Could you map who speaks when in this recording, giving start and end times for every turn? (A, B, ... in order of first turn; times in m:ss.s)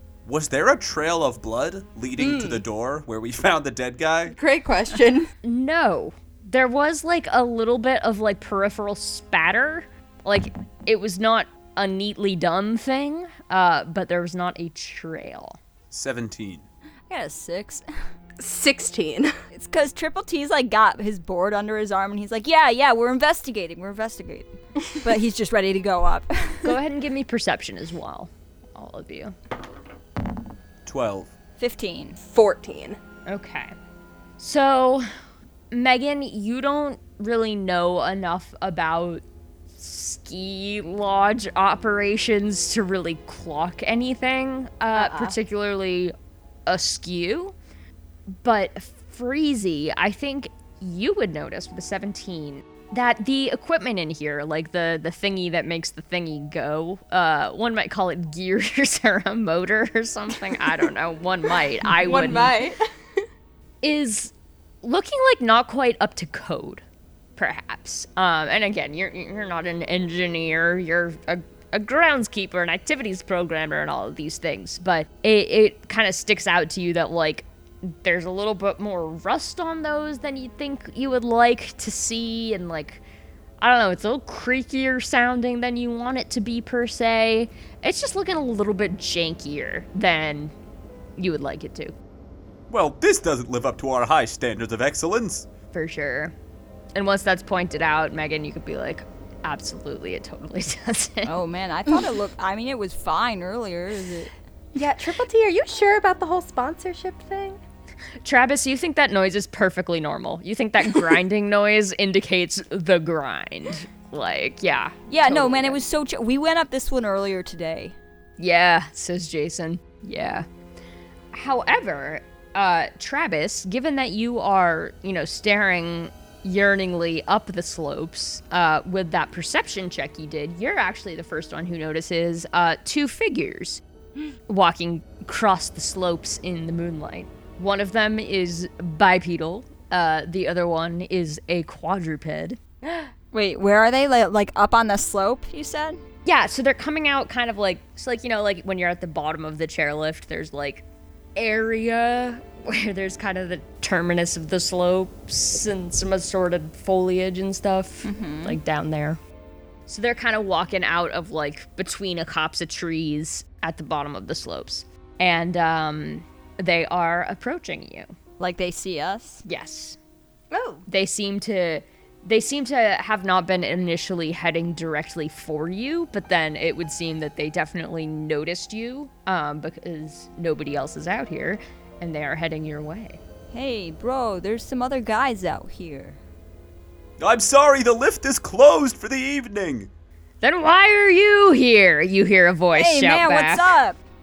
0:00.2-0:04.4 A
0:02.2-0:02.6 B
0:04.3-0:05.3 B
0:05.4-0:15.6 C
0:15.9-0:16.6 A
0:17.1-0:17.8 D
0:18.4-0:19.3 B
0:19.5-0:26.7 D
0:26.6-0:29.4 C
0:30.8-0:31.3 A
0:31.6-0:32.2 D
0:32.3-0:33.0 B
0:33.2-0:33.7 C
0:34.4-0:35.1 C
0:35.7-0:39.2 C
0:39.8-0:46.1 C
0:44.9-0:45.3 B
0:46.6-0:47.5 C
0:48.4-1:02.5 C
1:01.9-1:02.8 B
1:03.8-1:06.8 C
1:07.4-1:23.0 C
1:23.6-1:30.5 C
1:31.2-1:31.9 C
1:32.7-1:35.5 A
1:35.7-1:36.3 C
1:36.9-1:41.3 C
1:41.2-1:44.3 D
1:44.7-1:47.6 B
1:48.2-1:55.8 C
1:55.1-1:57.9 D
1:58.4-2:00.4 C
2:01.3-2:13.8 C
2:14.5-2:22.6 C
2:23.3-2:26.0 D
2:26.2-2:30.8 C
2:31.4-2:39.2 C
2:38.0-2:38.6 D
2:39.9-2:48.1 C
2:48.4-2:49.4 D
2:49.4-2:50.0 C
2:50.5-2:50.8 B
2:50.9-3:03.2 C
3:03.5-3:06.2 D
3:07.2-3:09.9 A
3:10.4-3:13.7 C
3:12.7-3:14.0 D